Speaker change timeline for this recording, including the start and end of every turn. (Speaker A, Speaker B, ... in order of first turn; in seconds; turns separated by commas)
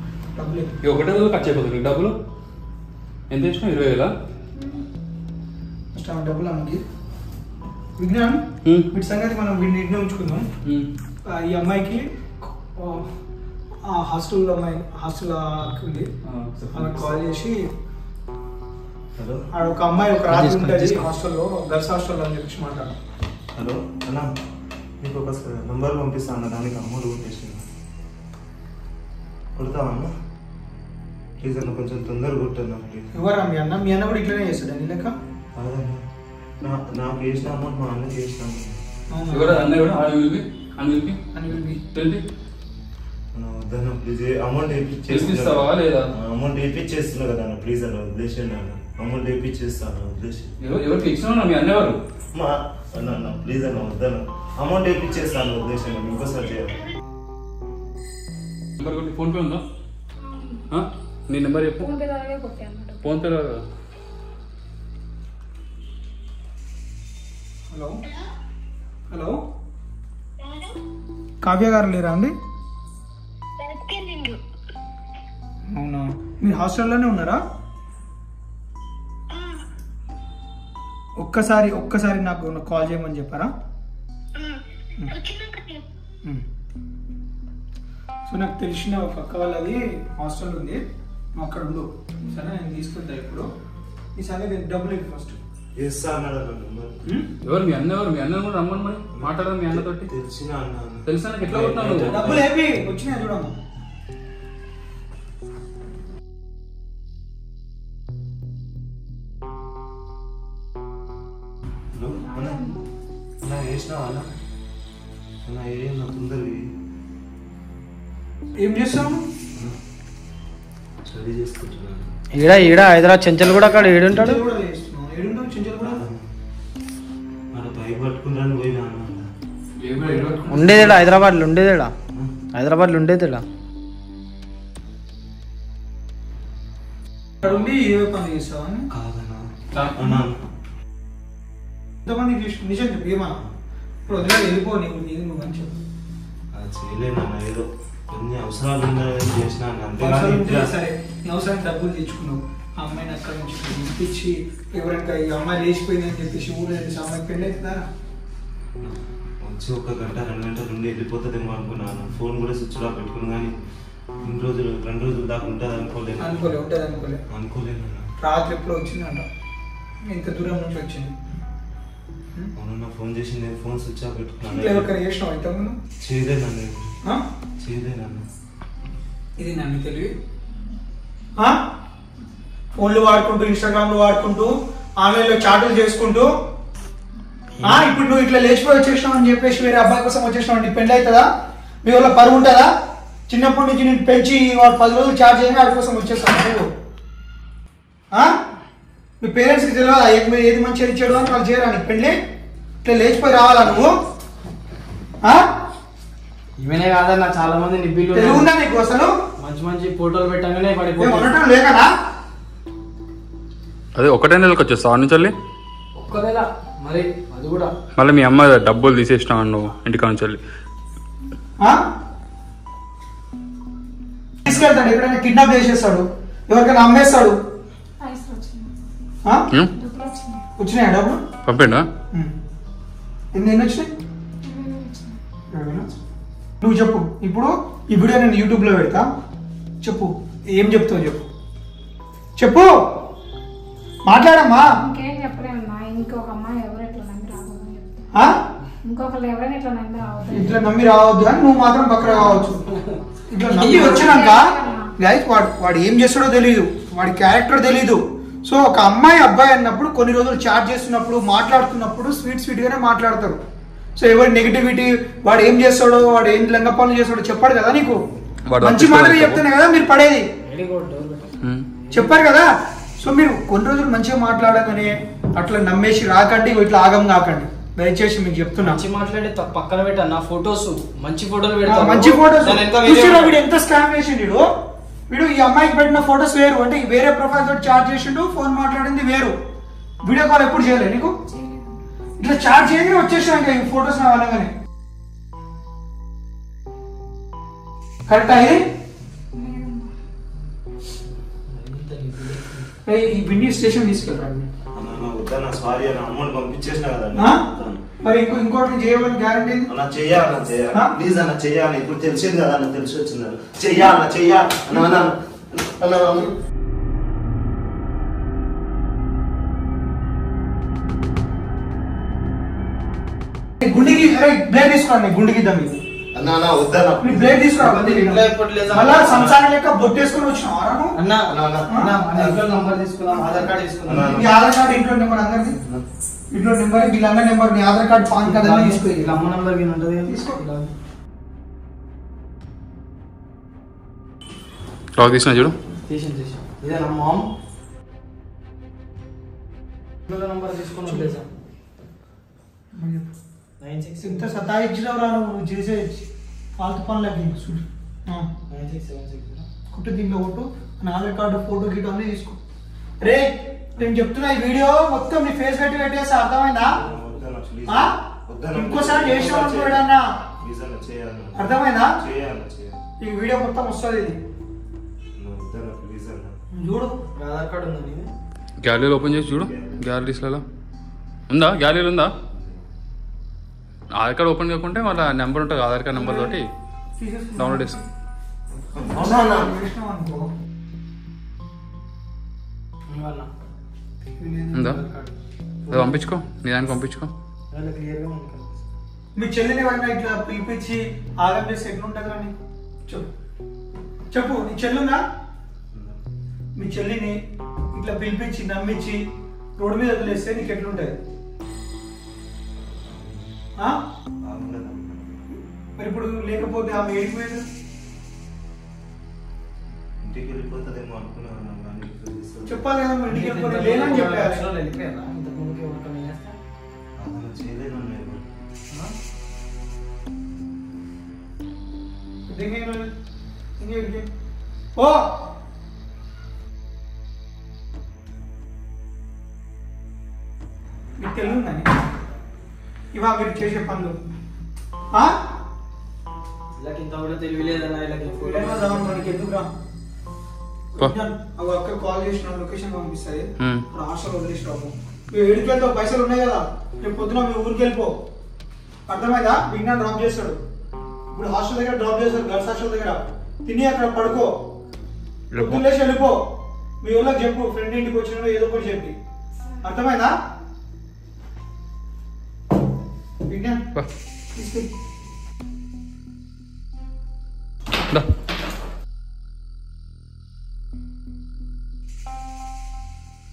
Speaker A: 0.4-0.8, Speaker B: 0.8-2.2, Speaker B: 3.3-4.1, Speaker C: 4.6-4.8, Speaker A: 5.9-6.8, Speaker A: 8.0-10.5, Speaker A: 11.3-13.1, Speaker A: 13.8-16.1, Speaker B: 16.3-17.2, Speaker A: 16.7-17.6, Speaker D: 19.2-19.4, Speaker A: 19.5-22.9, Speaker E: 20.2-21.1, Speaker D: 23.6-24.3, Speaker D: 25.0-27.6, Speaker D: 29.6-30.1, Speaker D: 31.4-33.1, Speaker A: 33.2-35.2, Speaker D: 35.6-36.0, Speaker D: 36.6-38.8, Speaker A: 39.1-39.7, Speaker B: 39.3-41.2, Speaker A: 41.4-41.8, Speaker B: 41.9-42.2, Speaker D: 43.3-50.5, Speaker B: 45.1-46.1, Speaker B: 50.6-52.0, Speaker D: 52.4-56.8, Speaker B: 58.8-59.6, Speaker C: 60.2-60.7, Speaker B: 60.7-61.9, Speaker C: 61.8-63.1, Speaker B: 63.0-63.6, Speaker A: 67.7-68.0, Speaker A: 69.1-69.4, Speaker A: 71.4-72.3, Speaker C: 73.7-74.3, Speaker A: 75.7-77.4, Speaker A: 81.2-83.5, Speaker A: 88.3-90.8, Speaker A: 91.4-93.5, Speaker A: 94.2-95.4, Speaker D: 95.8-97.0, Speaker B: 97.5-100.1, Speaker D: 99.1-102.5, Speaker B: 101.1-102.4, Speaker A: 102.1-103.5, Speaker D: 112.0-112.6, Speaker C: 112.2-112.8, Speaker D: 113.4-114.3, Speaker D: 115.5-116.7, Speaker A: 118.6-119.2, Speaker D: 121.1-122.1, Speaker E: 122.3-124.4, Speaker A: 123.8-126.0, Speaker D: 125.8-126.2, Speaker D: 127.5-129.3, Speaker B: 129.8-131.1, Speaker E: 130.4-131.9, Speaker E: 132.6-133.4, Speaker A: 137.5-138.9, Speaker D: 138.9-140.4, Speaker B: 139.7-140.2, Speaker A: 142.1-143.4, Speaker A: 144.1-145.7, Speaker D: 146.5-150.7, Speaker A: 150.0-157.9, Speaker D: 158.8-163.6, Speaker D: 164.2-166.6, Speaker A: 166.2-167.2, Speaker D: 167.3-168.1, Speaker A: 168.2-169.3, Speaker A: 170.1-171.1, Speaker D: 172.6-174.9, Speaker A: 174.5-175.8, Speaker D: 176.0-176.9, Speaker D: 177.6-178.2, Speaker A: 179.4-180.1, Speaker A: 182.8-186.3, Speaker D: 187.6-187.9, Speaker A: 187.6-191.3, Speaker A: 191.8-192.7, Speaker A: 193.3-196.7, Speaker A: 199.2-202.2, Speaker A: 202.8-203.9, Speaker E: 206.6-208.5, Speaker A: 208.1-209.1, Speaker E: 209.4-211.3, Speaker A: 211.0-211.9, Speaker B: 214.0-215.3, Speaker E: 216.0-217.7, Speaker B: 218.0-220.4, Speaker A: 224.4-227.4, Speaker C: 228.0-228.7, Speaker C: 229.7-230.4, Speaker A: 230.6-231.2, Speaker B: 231.5-231.9, Speaker A: 233.3-233.9, Speaker C: 234.4-235.2, Speaker A: 235.5-235.9, Speaker A: 236.6-239.1, Speaker A: 239.8-241.2, Speaker A: 242.4-242.7, Speaker A: 244.1-244.7, Speaker C: 244.8-248.1, Speaker C: 248.8-250.6, Speaker A: 250.4-252.7, Speaker C: 252.0-252.5, Speaker E: 252.0-253.0, Speaker A: 253.3-263.4, Speaker C: 253.4-254.9, Speaker E: 253.6-254.0, Speaker A: 264.0-268.0, Speaker B: 268.5-269.4, Speaker A: 268.6-270.3, Speaker E: 270.4-271.2, Speaker A: 271.9-272.5, Speaker A: 273.0-278.8, Speaker E: 278.6-283.4, Speaker A: 281.7-284.5, Speaker A: 285.1-289.4, Speaker A: 290.0-291.1, Speaker C: 291.3-291.8, Speaker A: 292.2-294.5, Speaker A: 298.1-298.6, Speaker C: 299.3-299.9, Speaker E: 301.5-302.7, Speaker A: 302.9-304.5, Speaker D: 304.8-307.8, Speaker A: 307.1-307.5, Speaker A: 308.0-309.7, Speaker D: 309.7-316.3, Speaker A: 310.7-311.0, Speaker A: 323.6-325.8, Speaker D: 326.1-327.5, Speaker A: 327.0-331.0, Speaker E: 327.5-329.3, Speaker D: 328.7-329.4, Speaker E: 330.9-334.3, Speaker D: 331.3-331.7, Speaker A: 331.7-332.0, Speaker A: 333.1-333.4, Speaker D: 333.9-334.2, Speaker A: 334.1-335.6, Speaker A: 336.3-339.2, Speaker E: 338.2-340.7, Speaker A: 340.1-340.4, Speaker B: 345.0-345.5, Speaker E: 345.9-347.3, Speaker E: 350.1-351.2, Speaker A: 350.9-351.1, Speaker A: 352.7-353.1, Speaker E: 353.6-354.4, Speaker A: 354.0-356.1, Speaker A: 356.6-358.3, Speaker E: 358.5-359.5, Speaker A: 359.7-362.4, Speaker A: 363.0-366.8, Speaker D: 366.7-369.9, Speaker A: 367.7-367.9, Speaker A: 368.5-370.0, Speaker D: 370.4-372.8, Speaker A: 371.4-371.9, Speaker A: 373.0-374.2, Speaker D: 375.2-376.3, Speaker A: 376.5-377.0, Speaker E: 377.1-378.1, Speaker B: 378.6-380.4, Speaker D: 379.2-379.9, Speaker B: 381.3-382.1, Speaker D: 382.3-382.6, Speaker B: 383.9-386.5, Speaker A: 386.0-386.4, Speaker A: 387.0-387.8, Speaker B: 387.4-387.8, Speaker D: 388.8-389.5, Speaker A: 388.9-390.3, Speaker E: 392.9-393.3, Speaker A: 394.2-395.1, Speaker B: 394.5-394.8, Speaker E: 395.7-396.1, Speaker B: 395.7-397.1, Speaker E: 397.5-398.5, Speaker A: 399.2-402.3, Speaker A: 404.1-405.0, Speaker D: 405.7-406.0, Speaker A: 406.6-407.2, Speaker A: 407.7-409.0, Speaker A: 409.6-411.0, Speaker D: 412.9-413.3, Speaker D: 414.2-415.2, Speaker A: 415.8-417.4, Speaker D: 420.0-422.6, Speaker A: 422.5-424.4, Speaker E: 423.0-426.4, Speaker D: 427.0-428.2, Speaker A: 432.3-432.9, Speaker A: 433.6-434.1, Speaker A: 434.8-435.1, Speaker A: 441.0-441.7, Speaker A: 442.9-444.0, Speaker E: 446.6-449.2, Speaker A: 448.2-449.5, Speaker A: 450.8-458.0, Speaker A: 458.9-460.4, Speaker A: 461.1-464.3, Speaker B: 465.3-465.6, Speaker A: 465.4-466.2, Speaker A: 466.8-469.0, Speaker A: 469.6-470.1, Speaker A: 473.3-473.6, Speaker A: 474.4-474.7